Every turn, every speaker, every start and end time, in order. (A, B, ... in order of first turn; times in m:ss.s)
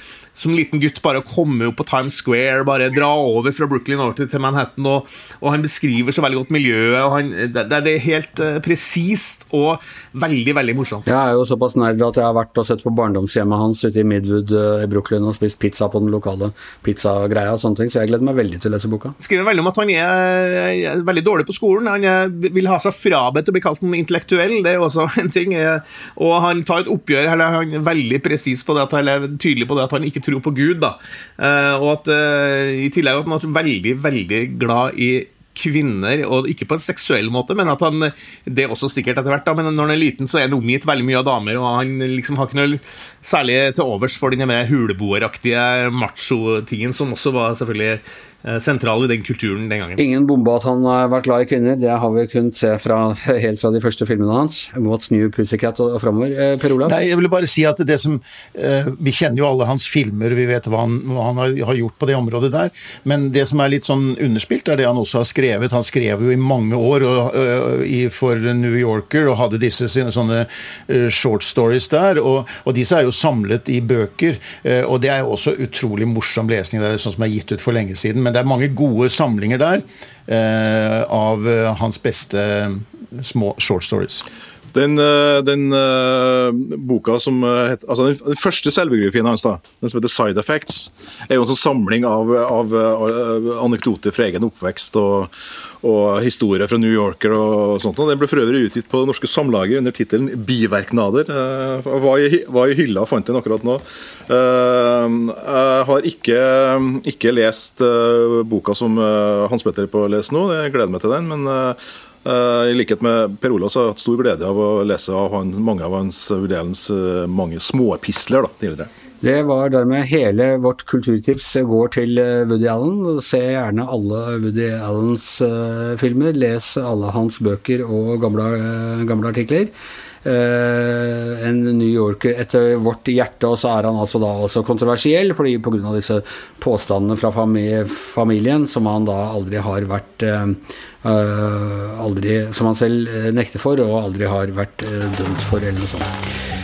0:00.3-0:11.0 A
0:11.0-0:19.1 B
0:19.2-0:50.0 A
0:50.0-0:57.0 B
0:56.8-1:24.2 C
1:24.7-1:35.3 D
1:35.8-1:58.9 D
1:59.2-2:09.7 B
2:10.2-2:26.1 B